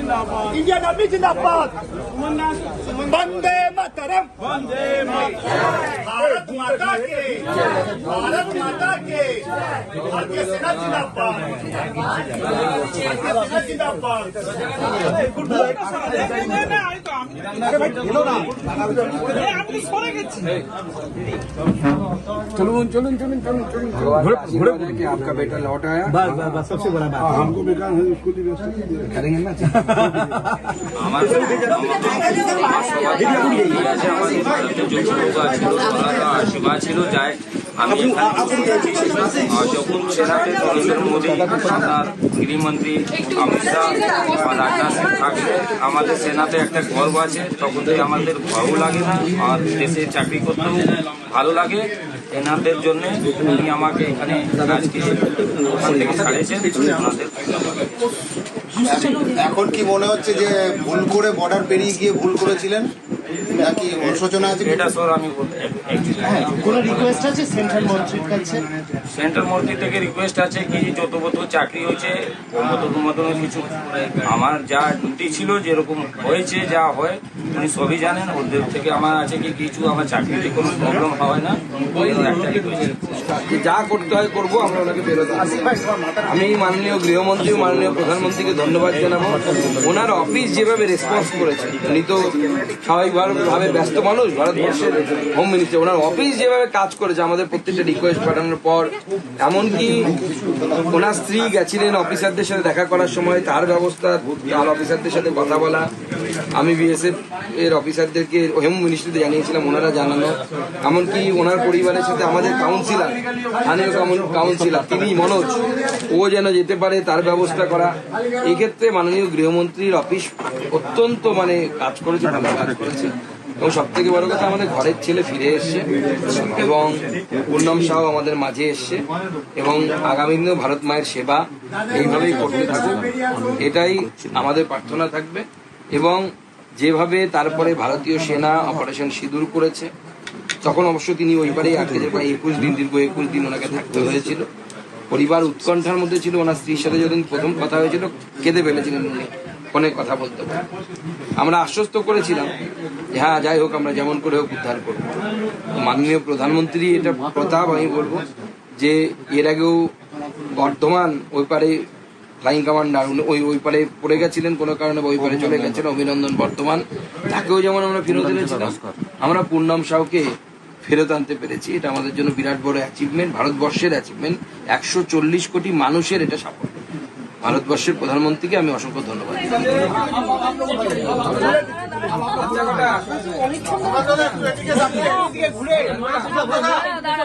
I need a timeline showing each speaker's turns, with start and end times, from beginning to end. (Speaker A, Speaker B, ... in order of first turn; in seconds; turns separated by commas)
Speaker A: 0.3-1.8, Speaker A: 2.9-4.3, Speaker A: 4.9-5.2, Speaker A: 5.9-11.7, Speaker A: 12.9-14.5, Speaker A: 15.1-16.6, Speaker B: 18.9-19.5, Speaker B: 20.3-20.6, Speaker B: 22.6-26.7, Speaker B: 29.1-29.9, Speaker C: 31.0-58.0, Speaker D: 58.8-62.9, Speaker D: 63.5-64.9, Speaker C: 64.1-67.4, Speaker E: 66.4-68.7, Speaker C: 69.1-83.2, Speaker B: 83.1-100.1, Speaker D: 100.0-100.8, Speaker B: 100.8-105.9, Speaker B: 106.5-129.0, Speaker B: 129.6-136.2, Speaker B: 136.8-139.9, Speaker B: 140.6-144.5, Speaker B: 145.1-150.6, Speaker B: 151.4-152.6, Speaker B: 153.1-155.1, Speaker B: 155.8-159.9, Speaker B: 160.5-161.8, Speaker B: 162.4-170.3, Speaker B: 170.8-176.8, Speaker B: 177.4-180.0, Speaker B: 181.0-181.6, Speaker B: 182.1-183.1, Speaker D: 183.7-185.9, Speaker A: 184.8-185.7, Speaker B: 185.9-186.4